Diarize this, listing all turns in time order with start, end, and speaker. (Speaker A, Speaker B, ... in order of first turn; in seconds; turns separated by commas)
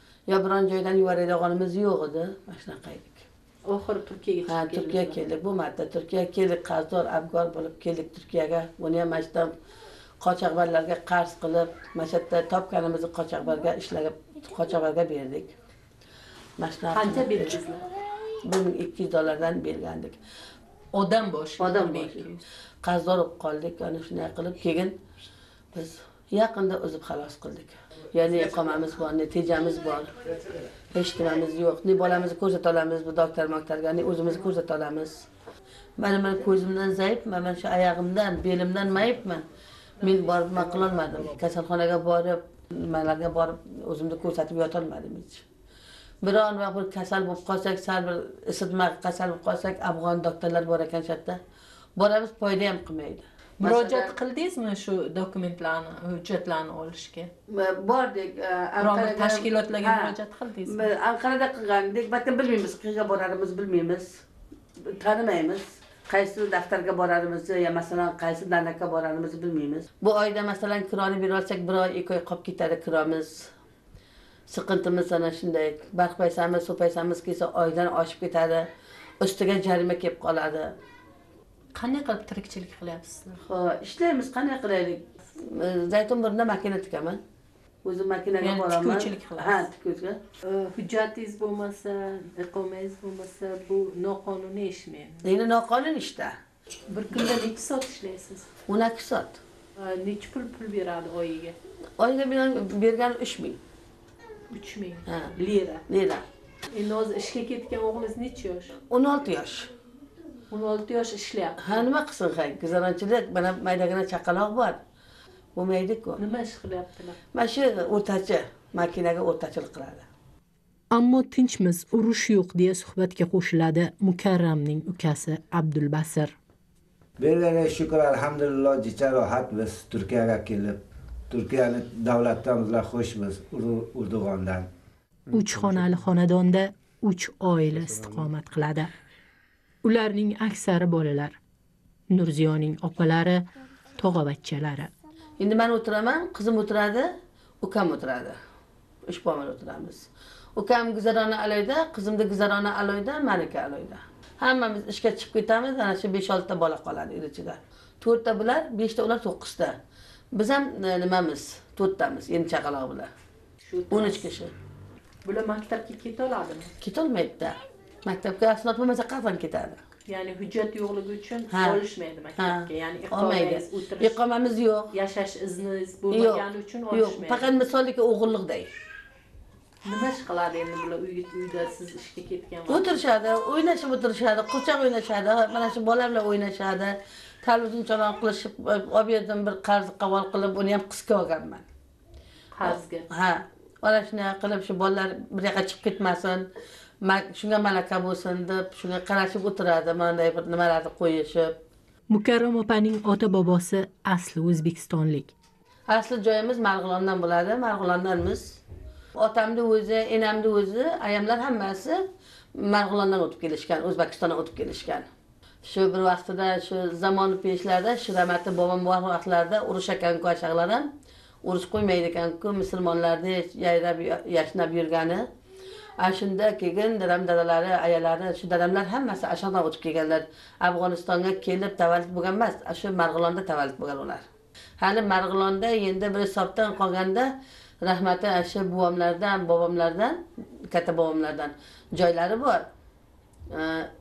Speaker A: 0.3-3.2, Speaker B: 3.7-5.2, Speaker A: 4.5-9.5, Speaker A: 10.2-15.5, Speaker A: 16.6-17.6, Speaker B: 16.9-17.9, Speaker A: 18.5-20.2, Speaker B: 20.9-22.4, Speaker A: 21.6-22.2, Speaker A: 22.9-24.9, Speaker A: 25.8-30.1, Speaker A: 30.9-35.2, Speaker A: 36.0-39.5, Speaker A: 40.0-45.4, Speaker A: 46.2-51.4, Speaker A: 52.0-54.1, Speaker B: 53.6-57.3, Speaker A: 57.6-60.1, Speaker B: 58.8-60.9, Speaker A: 60.7-64.2, Speaker A: 64.9-73.4, Speaker A: 74.5-78.6, Speaker A: 79.2-80.7, Speaker B: 81.8-83.4, Speaker A: 83.5-85.0, Speaker A: 85.7-87.2, Speaker A: 87.8-90.2, Speaker B: 88.4-89.7, Speaker B: 90.5-95.2, Speaker A: 95.3-96.3, Speaker B: 96.9-98.5, Speaker A: 98.7-99.4, Speaker B: 99.8-101.6, Speaker A: 102.0-103.6, Speaker B: 104.5-105.8, Speaker A: 105.9-106.2, Speaker B: 106.7-108.7, Speaker A: 108.9-109.7, Speaker B: 110.5-111.7, Speaker A: 111.6-114.8, Speaker A: 115.6-116.2, Speaker B: 116.2-117.2, Speaker A: 117.3-120.0, Speaker B: 120.9-126.3, Speaker C: 127.2-130.8, Speaker C: 131.3-134.7, Speaker B: 135.3-138.9, Speaker B: 139.8-141.4, Speaker B: 142.1-143.5, Speaker B: 144.0-144.9, Speaker A: 145.4-147.0, Speaker A: 147.6-148.3, Speaker A: 149.1-159.7, Speaker A: 160.4-163.1, Speaker B: 163.6-164.2, Speaker A: 163.9-164.5, Speaker B: 165.2-166.7, Speaker A: 166.8-167.6, Speaker A: 168.1-169.8, Speaker B: 170.1-174.2, Speaker A: 171.5-171.8, Speaker A: 172.4-174.9, Speaker B: 174.9-177.6, Speaker A: 176.1-178.7, Speaker B: 179.9-183.0, Speaker A: 182.7-186.9, Speaker A: 187.4-191.7, Speaker B: 192.6-193.1, Speaker A: 192.7-196.4, Speaker A: 197.1-201.5, Speaker B: 202.1-205.3, Speaker A: 205.9-208.6, Speaker A: 209.2-211.9, Speaker A: 212.7-215.1, Speaker A: 215.7-220.8, Speaker A: 221.4-225.2, Speaker A: 226.0-234.2, Speaker A: 234.8-237.2, Speaker A: 237.8-240.2, Speaker A: 240.7-242.6